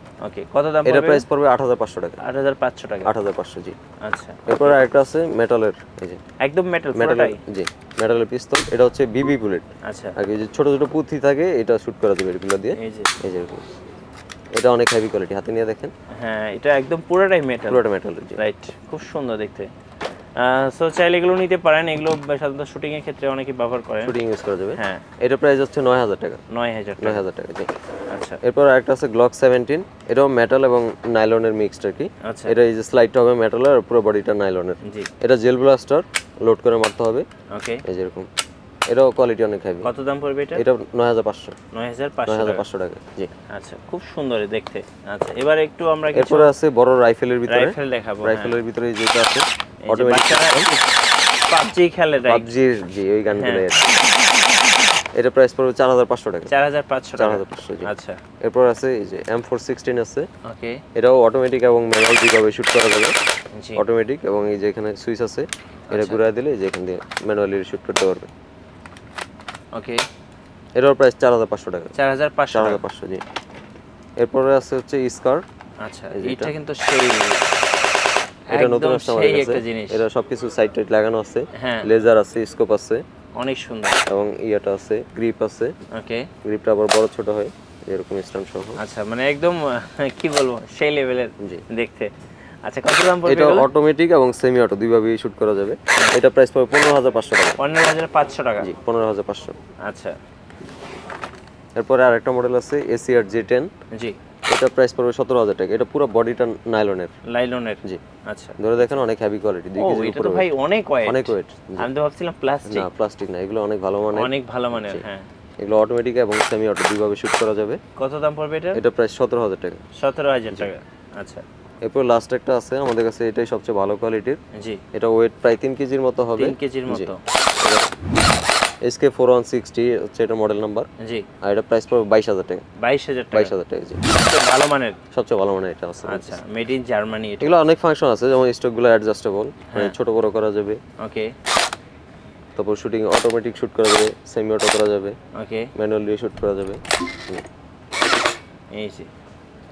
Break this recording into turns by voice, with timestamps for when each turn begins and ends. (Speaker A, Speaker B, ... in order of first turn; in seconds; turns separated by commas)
Speaker A: 0.2-1.2, Speaker B: 0.8-2.2, Speaker A: 2.2-3.1, Speaker B: 3.0-3.8, Speaker A: 4.0-4.8, Speaker B: 4.5-6.2, Speaker A: 6.4-7.4, Speaker B: 6.9-13.7, Speaker A: 9.8-10.2, Speaker A: 12.8-13.1, Speaker B: 14.5-15.9, Speaker A: 16.1-17.8, Speaker B: 17.7-18.4, Speaker A: 18.4-19.7, Speaker A: 20.4-24.1, Speaker B: 24.0-26.4, Speaker A: 24.8-25.1, Speaker A: 26.5-27.2, Speaker B: 27.0-27.7, Speaker A: 28.1-28.4, Speaker B: 28.4-37.3, Speaker A: 32.2-32.5, Speaker A: 34.8-35.1, Speaker A: 37.5-37.8, Speaker B: 37.9-38.3, Speaker B: 38.9-39.9, Speaker A: 39.8-40.6, Speaker B: 40.5-41.5, Speaker A: 41.7-42.6, Speaker B: 42.3-43.3, Speaker A: 43.5-46.5, Speaker B: 46.1-50.8, Speaker A: 47.5-48.5, Speaker A: 49.9-50.7, Speaker A: 51.5-52.5, Speaker B: 52.2-54.0, Speaker A: 53.3-53.7, Speaker B: 55.1-56.5, Speaker A: 56.5-58.2, Speaker B: 57.2-57.9, Speaker B: 58.4-60.3, Speaker A: 60.5-60.8, Speaker B: 61.0-63.1, Speaker A: 63.5-63.8, Speaker B: 63.8-68.3, Speaker A: 65.9-66.2, Speaker A: 69.7-70.0, Speaker B: 70.8-71.9, Speaker A: 72.0-72.8, Speaker B: 72.5-73.2, Speaker B: 74.2-75.4, Speaker A: 75.8-77.4, Speaker B: 76.1-76.5, Speaker A: 78.5-80.0, Speaker B: 78.5-83.0, Speaker A: 81.6-81.9, Speaker A: 83.4-84.0, Speaker B: 84.1-85.7, Speaker A: 85.9-86.3, Speaker B: 86.4-88.8, Speaker A: 88.8-93.7, Speaker B: 93.2-97.6, Speaker A: 97.6-98.7, Speaker B: 98.6-99.5, Speaker A: 99.8-100.2, Speaker B: 101.8-103.7, Speaker B: 104.5-107.1, Speaker A: 107.3-108.9, Speaker B: 108.6-110.5, Speaker A: 109.8-112.9, Speaker B: 111.1-111.9, Speaker B: 112.7-115.0, Speaker A: 114.2-115.3, Speaker B: 115.6-117.8, Speaker A: 118.0-118.8, Speaker B: 118.8-119.8, Speaker A: 120.0-121.4, Speaker B: 121.8-124.4, Speaker A: 124.5-124.8, Speaker B: 124.9-127.9, Speaker A: 126.4-127.2, Speaker B: 128.8-130.9, Speaker A: 131.0-131.3, Speaker B: 131.4-132.6, Speaker A: 132.8-133.5, Speaker B: 133.3-134.0, Speaker A: 134.1-135.0, Speaker B: 135.1-136.4, Speaker A: 136.1-137.6, Speaker B: 137.4-140.8, Speaker A: 139.7-139.9, Speaker A: 141.0-141.3, Speaker B: 142.6-145.2, Speaker A: 145.3-145.7, Speaker B: 145.8-147.4, Speaker A: 148.7-149.1